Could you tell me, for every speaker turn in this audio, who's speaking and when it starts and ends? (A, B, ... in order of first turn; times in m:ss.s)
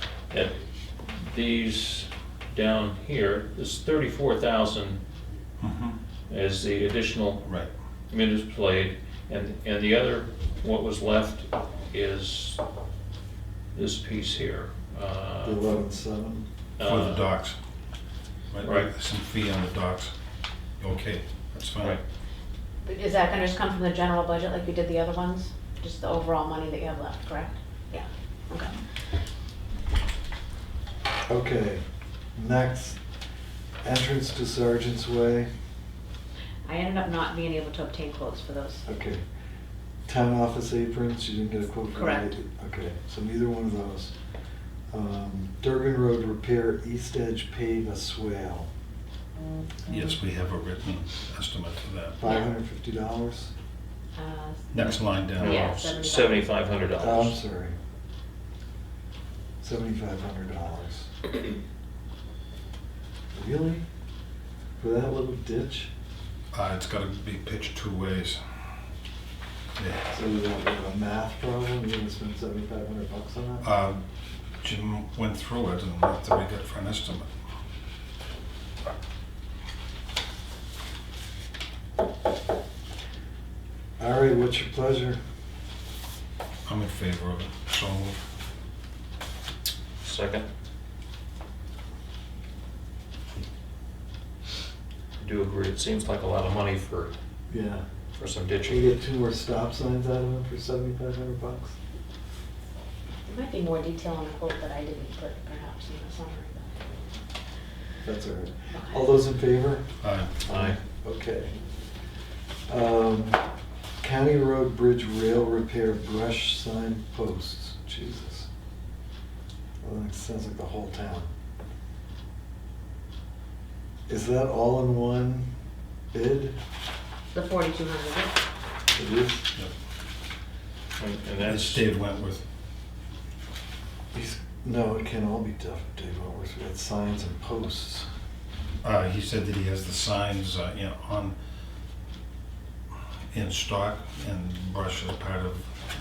0:00.3-0:05.0 A
0:05.6-0:06.0 B
0:06.3-0:07.4 A
0:07.4-0:07.7 B
0:08.1-0:12.6 A
0:13.7-0:15.6 A
0:15.4-0:16.4 C
0:16.8-0:17.2 A
0:16.8-0:17.6 B
0:18.5-0:20.1 B
0:18.6-0:18.9 A
0:20.8-0:22.0 B
0:22.8-0:28.7 D
0:31.3-0:31.8 C
0:32.4-0:33.0 C
0:33.8-0:35.5 C
0:36.6-0:38.8 D
0:38.8-0:39.2 C
0:40.0-0:44.1 C
0:41.9-0:42.3 D
0:44.9-0:48.7 C
0:49.8-0:52.2 B
0:52.2-0:53.5 C
0:54.2-0:56.6 D
0:54.7-0:55.8 B
0:55.4-0:57.4 A
0:57.0-0:57.8 C
0:59.6-1:01.1 C
1:03.3-1:03.8 C
1:04.8-1:05.9 C
1:06.5-1:08.4 B
1:09.8-1:10.0 B
1:10.1-1:13.6 C
1:13.6-1:14.0 B
1:14.6-1:17.3 B
1:24.0-1:25.2 C
1:26.6-1:28.2 B
1:30.0-1:30.4 A
1:35.2-1:37.1 A
1:37.5-1:37.8 C
1:38.1-1:39.0 A
1:38.7-1:41.7 C
1:43.2-1:46.7 D
1:48.0-1:49.8 C
1:48.7-1:49.0 D
1:50.0-1:50.3 B
1:50.4-1:51.5 C
1:50.5-1:50.8 A
1:52.7-1:53.4 C
1:54.0-1:58.5 C
1:59.8-2:01.3 C
2:04.1-2:05.5 C
2:06.1-2:06.6 C
2:07.3-2:08.4 D
2:08.9-2:09.4 C
2:11.0-2:11.9 A
2:11.4-2:12.4 B
2:14.1-2:18.1 C
2:18.8-2:21.4 B
2:23.3-2:25.6 B